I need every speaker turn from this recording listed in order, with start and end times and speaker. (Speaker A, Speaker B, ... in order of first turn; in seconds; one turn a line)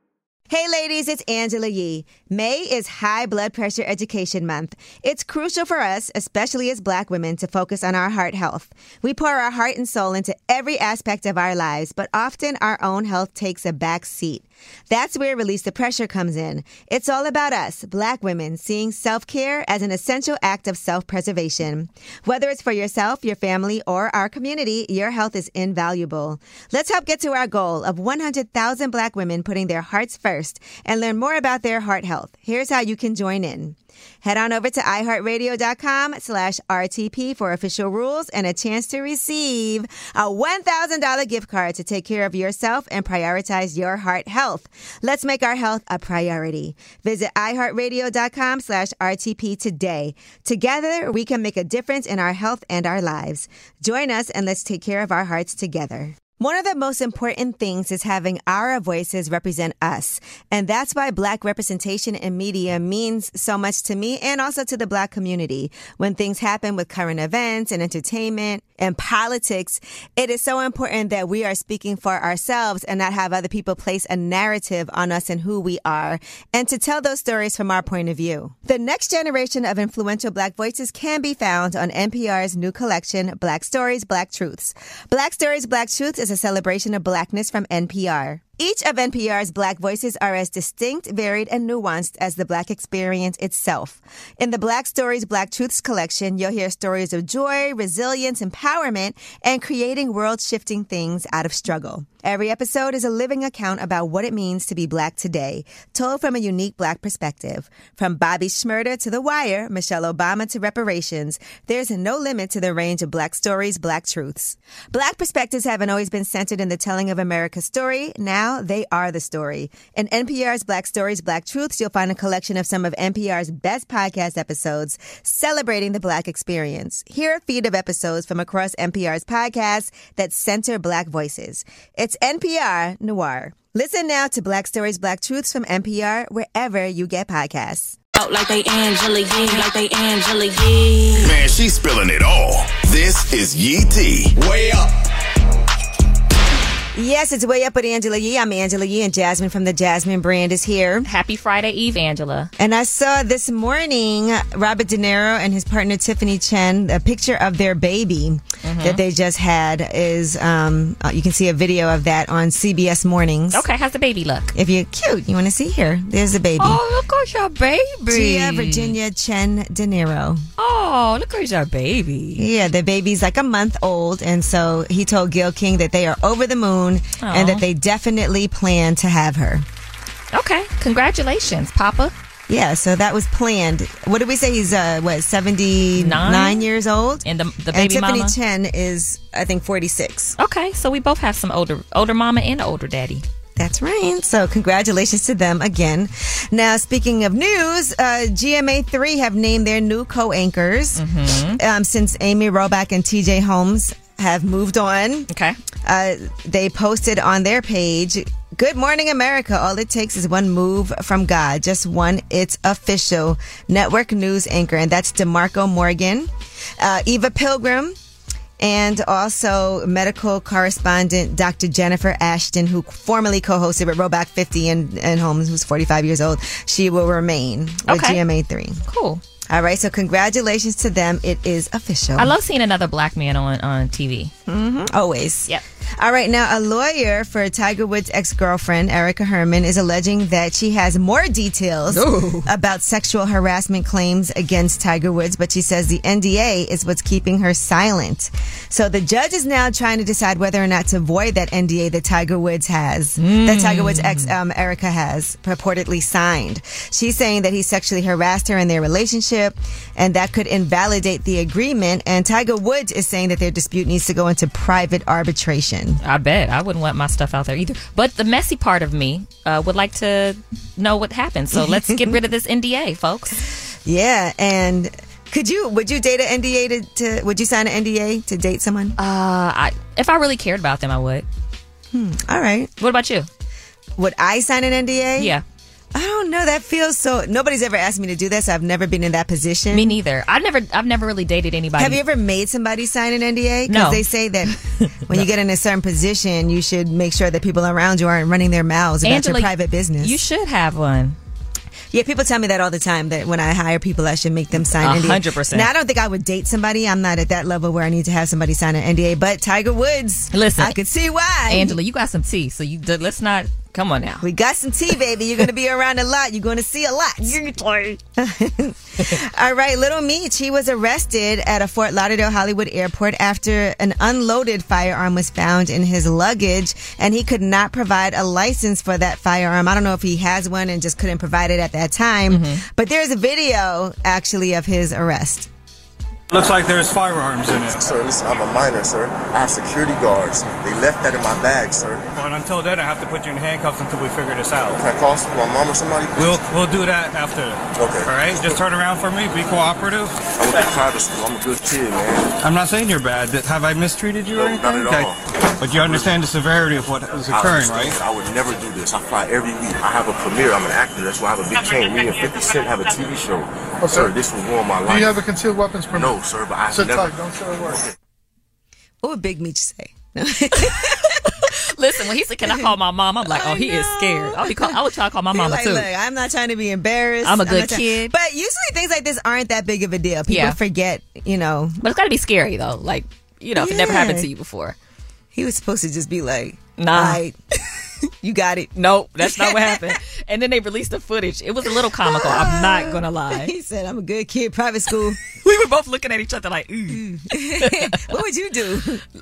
Speaker A: 0.5-138.0
Speaker B: 138.2-141.3
Speaker C: 141.2-144.7
Speaker A: 146.9-151.1
Speaker D: 151.1-152.5
Speaker A: 152.6-163.6
Speaker D: 158.6-159.0
Speaker D: 163.5-164.5
Speaker A: 164.5-166.8
Speaker D: 166.6-169.0
Speaker A: 168.1-170.5
Speaker D: 170.6-172.4
Speaker A: 172.4-179.7
Speaker D: 177.2-177.6
Speaker D: 180.3-182.1
Speaker A: 182.5-190.4
Speaker D: 186.0-186.7
Speaker D: 187.2-188.3
Speaker D: 190.4-193.2
Speaker A: 193.6-201.0
Speaker D: 201.0-201.6
Speaker A: 201.6-205.3
Speaker D: 205.3-205.6
Speaker A: 205.8-217.9
Speaker A: 218.6-228.8
Speaker D: 227.9-228.2
Speaker D: 228.9-229.2
Speaker A: 229.5-232.3
Speaker D: 232.2-234.3
Speaker A: 234.5-266.0
Speaker D: 241.9-242.5
Speaker D: 253.2-254.3
Speaker D: 266.0-273.4
Speaker A: 271.6-272.2
Speaker A: 273.9-279.0
Speaker D: 279.0-281.3
Speaker A: 281.9-282.7
Speaker D: 282.8-283.3
Speaker A: 284.0-285.3
Speaker D: 285.2-285.4
Speaker A: 285.9-289.9
Speaker D: 289.7-292.0
Speaker A: 291.8-300.2
Speaker D: 293.7-294.0
Speaker D: 299.0-301.2
Speaker A: 301.9-311.8
Speaker D: 304.7-305.7
Speaker D: 310.3-310.8
Speaker D: 311.5-314.2
Speaker A: 314.2-317.4
Speaker D: 317.3-318.0
Speaker A: 318.2-335.5
Speaker D: 332.3-332.6
Speaker E: 336.3-337.9
Speaker F: 337.6-342.1
Speaker E: 342.1-344.8
Speaker F: 344.7-346.4
Speaker E: 346.2-350.2
Speaker F: 347.8-348.5
Speaker F: 350.4-352.3
Speaker E: 352.4-358.0
Speaker F: 354.3-356.2
Speaker F: 357.0-365.2
Speaker G: 363.8-364.1
Speaker G: 364.9-367.8
Speaker F: 365.9-367.2
Speaker A: 369.0-371.2
Speaker D: 371.4-375.9
Speaker A: 373.3-374.7
Speaker A: 375.3-381.8
Speaker D: 377.2-378.1
Speaker D: 380.3-380.6
Speaker D: 381.8-384.8
Speaker A: 383.6-384.3
Speaker A: 385.3-387.4
Speaker D: 386.8-387.2
Speaker A: 388.2-389.9
Speaker D: 388.8-393.5
Speaker A: 392.0-395.2
Speaker D: 395.3-398.1
Speaker A: 396.9-399.0